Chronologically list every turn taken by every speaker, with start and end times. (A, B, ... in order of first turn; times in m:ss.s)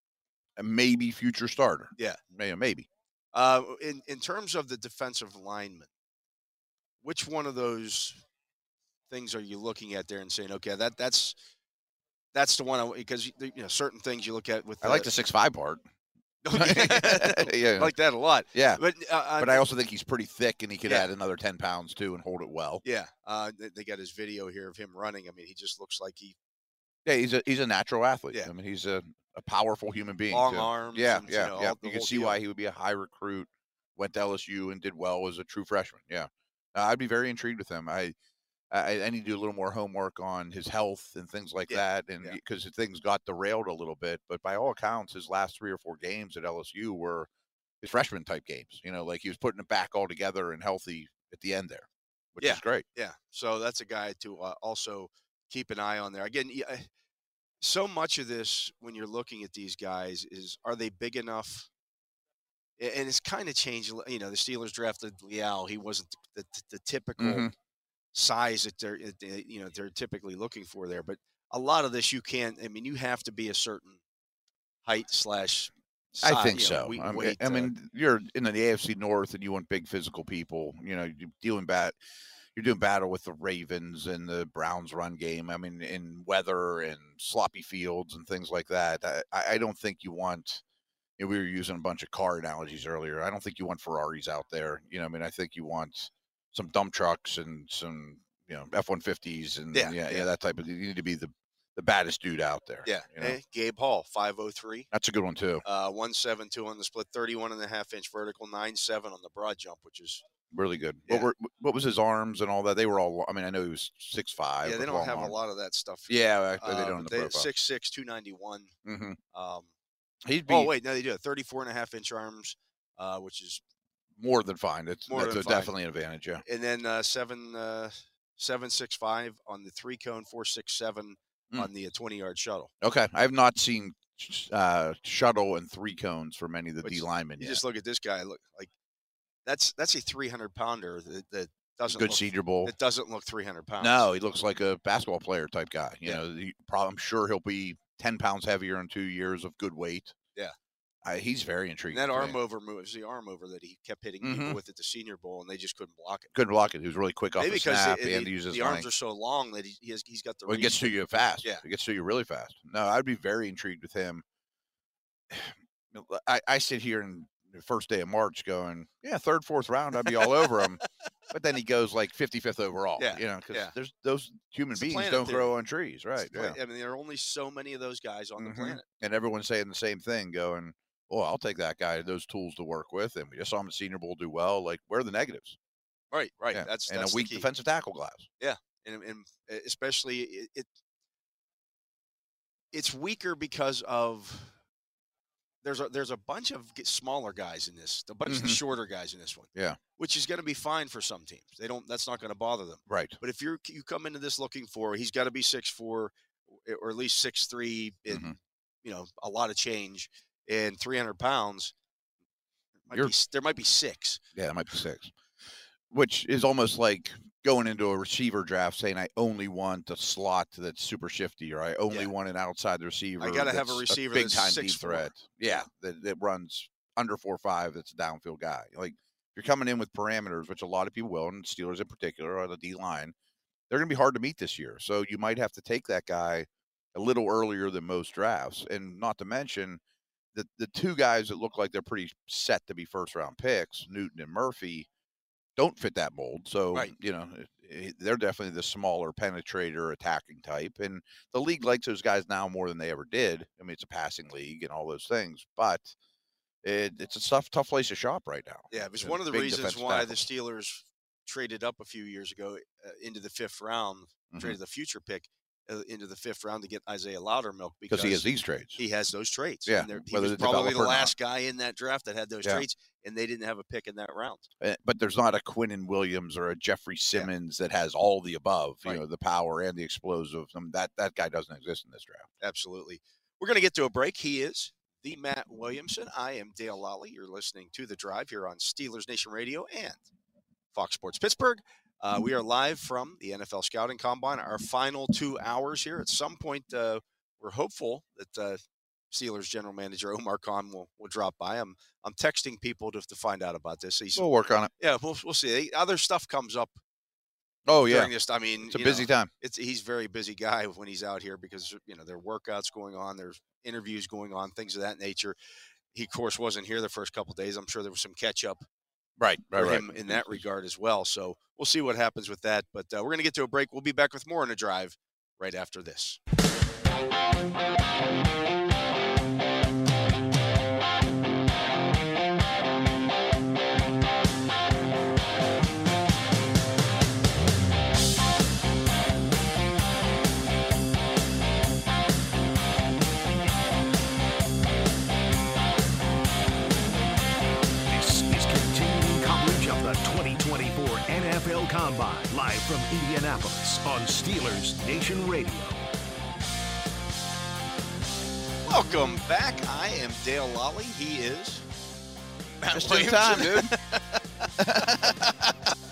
0:00.6-0:02.9 A
0:03.3-0:05.9 B
0:07.0-0:08.2 B
0:09.1-0:11.4 B
0:12.3-0:15.1 B
0:14.8-0:15.8 A
0:16.4-0:19.6 B
0:16.5-0:17.9 A
0:18.5-0:18.8 A
0:19.4-0:22.8 A
0:22.8-0:26.4 B
0:27.0-0:38.1 A
0:30.3-0:32.4 B
0:38.7-0:47.3 A
0:41.7-0:42.4 B
0:47.8-0:52.8 A
0:52.4-0:56.9 B
0:57.6-1:01.7 B
1:02.8-1:07.5 B
1:07.2-1:07.5 A
1:08.1-1:14.0 B
1:14.8-1:17.7 B
1:16.2-1:22.0 A
1:22.5-1:30.6 A
1:31.2-1:43.4 A
1:39.7-1:40.3 B
1:42.8-1:44.9 B
1:44.9-1:45.6 A
1:45.6-1:50.2 B
1:50.5-1:55.4 A
1:54.6-1:58.7 B
1:56.1-1:57.5 A
1:58.8-1:59.2 A
1:59.3-1:59.7 B
2:00.2-2:00.7 A
2:00.5-2:03.6 B
2:04.2-2:06.4 A
2:05.1-2:05.7 B
2:06.4-2:12.7 B
2:12.8-2:17.6 A
2:16.8-2:18.7 B
2:19.4-2:24.0 B
2:21.9-2:22.7 A
2:23.8-2:30.1 A
2:31.0-2:32.4 A
2:31.9-2:36.3 B
2:34.2-2:34.6 A
2:36.3-2:38.9 A
2:37.4-2:41.6 B
2:40.5-2:44.2 A
2:45.3-2:56.6 A
2:50.0-2:50.8 B
2:53.0-2:53.7 B
2:54.7-2:55.5 B
2:56.2-2:58.8 B
2:58.4-3:05.6 A
3:06.1-3:07.5 B
3:06.5-3:08.3 A
3:08.4-3:10.7 B
3:12.7-3:14.5 B
3:15.6-3:31.7 B
3:18.2-3:18.6 A
3:22.9-3:23.2 A
3:28.1-3:28.4 A
3:32.9-3:34.2 B
3:34.3-3:35.1 A
3:35.9-3:53.1 A
3:43.2-3:45.6 B
3:53.7-3:59.8 A
4:00.3-4:04.9 A
4:05.6-4:15.9 A
4:16.6-4:20.3 A
4:18.7-4:34.5 B
4:24.3-4:24.6 A
4:27.9-4:28.8 A
4:29.7-4:31.1 A
4:34.6-4:42.3 A
4:42.4-4:50.0 B
4:50.7-4:58.6 B
4:59.1-5:04.2 B
5:04.2-5:04.7 A
5:04.8-5:06.8 B
5:07.7-5:08.1 A
5:07.9-5:15.4 B
5:08.6-5:09.3 A
5:15.9-5:18.6 B
5:19.2-5:20.4 A
5:19.5-5:26.2 B
5:47.9-5:55.9 C
5:58.6-6:01.6 B
6:02.6-6:05.3 B
6:02.7-6:03.7 A
6:04.6-6:05.5 A